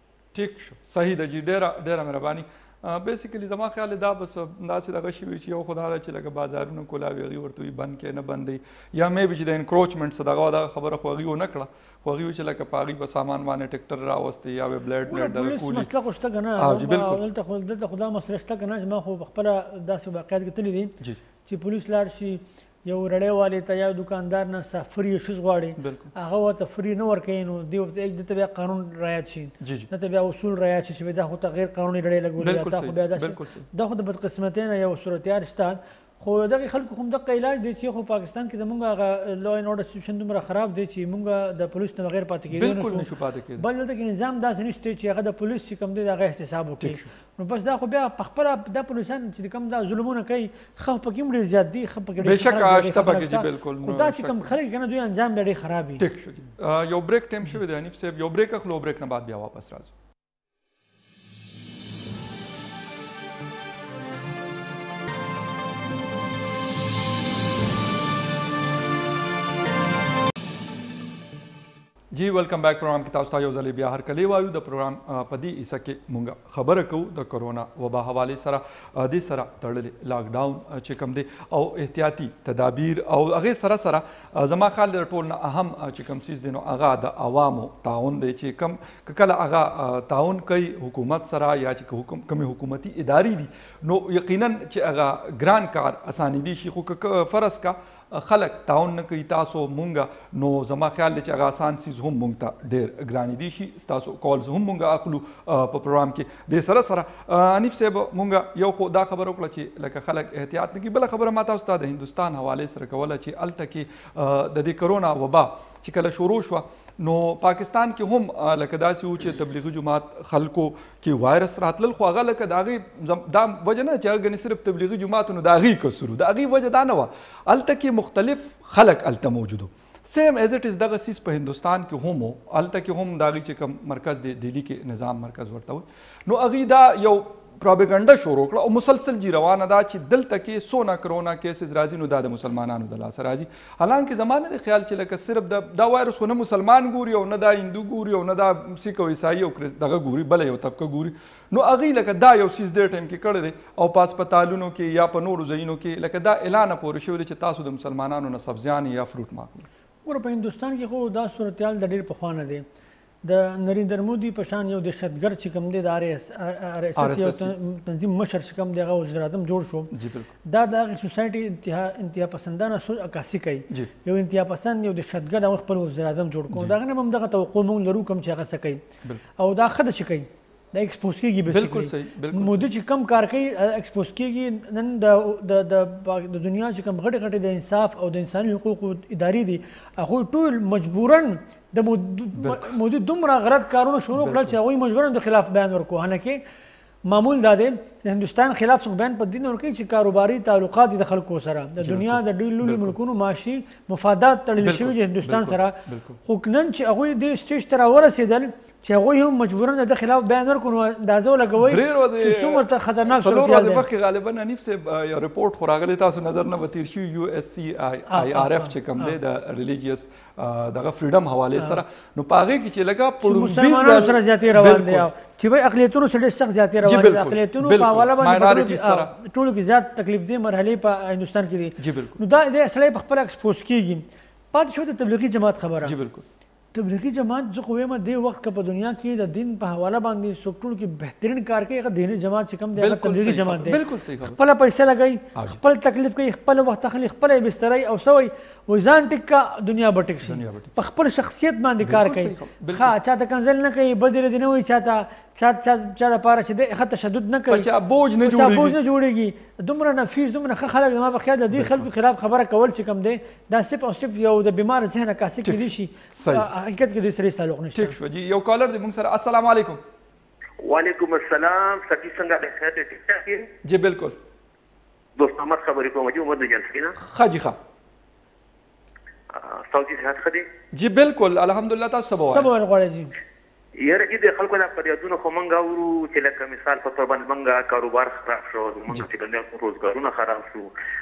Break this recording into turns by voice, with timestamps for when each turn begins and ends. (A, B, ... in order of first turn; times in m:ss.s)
0:00.3-0:15.9 A
0:15.1-0:21.0 B
0:16.6-0:17.2 A
0:21.5-0:56.0 B
0:25.8-0:26.1 A
0:29.6-0:29.9 A
0:32.4-0:33.7 A
0:42.5-0:43.7 A
0:46.8-0:47.1 A
0:52.2-0:54.5 A
0:56.0-0:59.9 A
1:12.1-2:39.7 A
2:40.1-2:42.6 B
2:43.2-2:49.9 B
2:47.0-2:47.6 A
2:49.9-2:50.3 A
2:50.5-2:58.8 B
2:56.5-2:56.8 A
2:59.4-3:16.4 B
3:01.5-3:02.7 A
3:12.4-3:12.8 A
3:14.1-3:14.6 A
3:17.1-3:33.9 B
3:21.8-3:23.0 A
3:24.6-3:26.2 A
3:31.6-3:45.1 A
3:38.1-3:39.2 B
3:43.2-3:56.0 B
3:46.8-3:49.1 A
3:51.8-3:52.2 A
3:55.8-3:56.3 A
3:56.7-4:28.0 B
4:02.8-4:04.4 A
4:10.2-4:10.7 A
4:11.8-4:13.0 A
4:17.5-4:18.8 A
4:21.5-4:21.9 A
4:25.4-4:26.5 A
4:27.7-4:29.8 A
4:30.6-4:33.5 C
4:33.6-4:34.2 A
4:35.2-4:37.0 C
4:37.0-4:37.6 A
4:39.3-4:40.5 C
4:40.7-4:42.5 A
4:42.2-4:43.1 B
4:43.8-4:50.7 C